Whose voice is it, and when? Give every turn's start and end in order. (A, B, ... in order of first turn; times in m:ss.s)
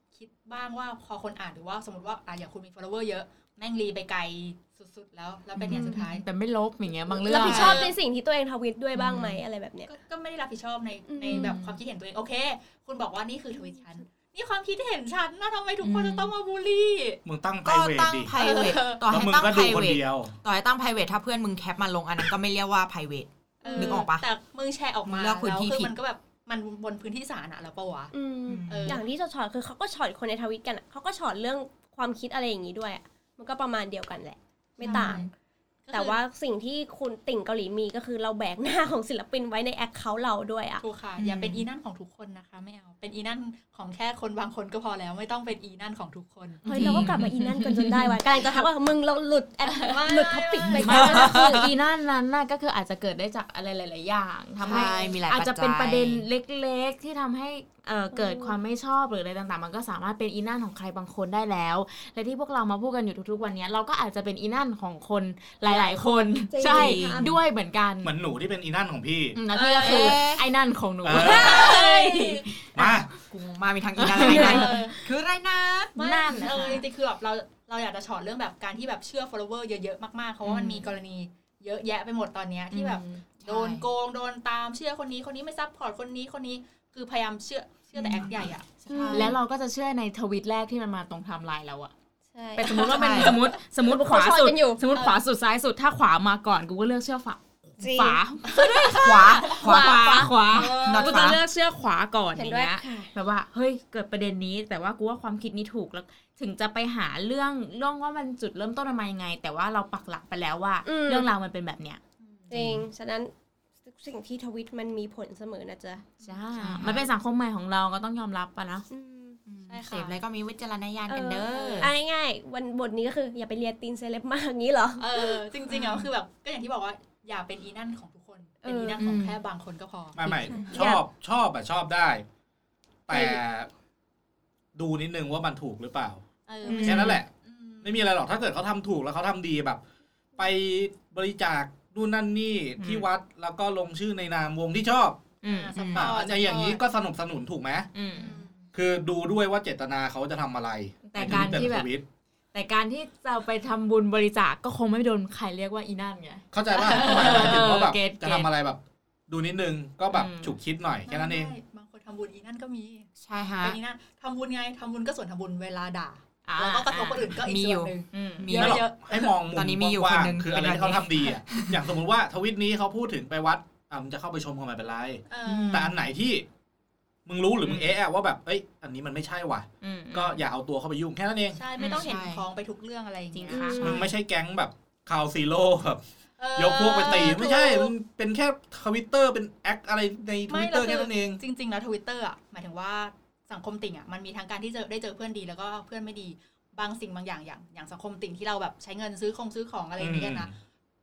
0:00.1-0:06.2 A
0:05.6-0:05.9 B
0:05.7-0:06.0 C
0:05.7-0:07.9 D
0:07.1-0:09.9 C
0:07.3-0:07.9 A
0:07.4-0:07.8 B
0:09.0-0:09.4 D
0:09.9-0:17.2 A
0:11.1-0:11.6 C
0:11.3-0:11.7 B
0:15.8-0:16.3 B
0:17.2-0:18.4 E
0:17.6-0:24.3 B
0:18.4-0:19.1 A
0:19.1-0:20.4 E
0:23.6-0:28.1 A
0:23.6-0:24.1 C
0:25.1-0:25.9 B
0:28.1-0:35.3 C
0:28.5-0:29.0 B
0:28.7-0:29.0 A
0:34.8-0:35.2 A
0:34.8-0:35.3 B
0:35.9-0:36.2 A
0:35.9-0:40.8 C
0:40.8-0:47.0 A
0:41.2-0:41.6 B
0:46.6-0:47.3 B
0:46.6-0:51.7 C
0:46.7-0:48.2 D
0:49.9-0:51.0 A
0:50.6-0:51.7 B
0:50.7-1:08.1 D
0:54.6-0:56.2 B
0:54.7-0:55.1 C
0:58.1-0:58.6 C
1:05.7-1:07.4 C
1:06.6-1:07.3 B
1:08.0-1:09.4 E
1:09.4-1:13.0 D
1:09.5-1:10.2 A
1:09.8-1:10.5 B
1:11.0-1:11.7 E
1:11.1-1:12.4 C
1:11.2-1:12.3 A
1:12.8-1:13.1 E
1:13.2-1:16.0 B
1:14.0-1:14.9 D
1:14.1-1:15.0 A
1:16.0-1:28.8 A
1:16.0-1:16.8 D
1:20.4-1:20.9 B
1:22.7-1:23.2 D
1:23.4-1:23.9 B
1:28.0-1:29.4 B
1:28.9-1:29.4 C
1:29.1-1:31.9 D
1:32.3-1:34.8 C
1:32.6-1:52.0 D
1:32.9-1:33.4 B
1:34.9-1:35.2 A
1:37.8-1:38.2 C
1:38.5-1:39.6 A
1:38.9-1:41.4 B
1:40.5-1:41.4 A
1:42.4-1:43.1 C
1:50.9-1:51.3 C
1:52.5-1:53.3 C
1:53.8-1:56.1 C
1:56.2-1:58.9 D
1:56.6-1:57.1 B
1:58.9-1:59.4 C
1:59.5-2:01.9 B
1:59.7-2:00.2 A
2:01.1-2:05.4 C
2:01.5-2:01.9 A
2:05.0-2:10.2 A
2:08.6-2:09.0 C
2:09.0-2:09.3 B
2:10.1-2:12.2 E
2:10.3-2:11.0 C
2:13.1-2:13.7 E
2:13.1-2:13.4 C
2:14.8-2:16.2 E
2:16.5-2:18.1 A
2:16.6-2:17.0 C
2:16.6-2:17.2 B
2:16.8-2:17.3 E
2:17.8-2:19.8 E
2:20.4-2:25.2 E
2:22.8-2:23.1 D
2:25.4-2:25.8 D
2:25.4-2:26.8 A
2:25.8-2:26.1 B
2:25.9-2:27.9 E
2:28.0-2:28.4 D
2:28.1-2:28.6 A
2:28.7-2:32.1 E
2:31.1-2:31.9 D
2:32.5-2:38.5 D
2:36.5-2:41.6 E
2:37.0-2:37.6 A
2:40.1-2:40.6 D
2:41.0-2:49.4 A
2:43.2-2:43.8 B
2:46.5-2:47.3 D
2:47.4-2:48.9 B
2:48.1-2:48.5 D
2:48.5-2:56.5 E
2:49.5-2:51.8 B
2:55.3-2:55.9 A
2:55.5-2:56.0 B
2:57.3-3:01.6 E
2:57.6-2:57.9 D
2:59.8-3:00.4 D
3:01.5-3:04.0 A
3:01.8-3:02.5 B
3:03.3-3:04.1 D
3:03.5-3:04.0 C
3:03.8-3:06.0 E
3:06.4-3:07.8 A
3:06.6-3:11.4 E
3:07.0-3:07.9 C
3:10.5-3:20.5 A
3:20.0-3:20.5 E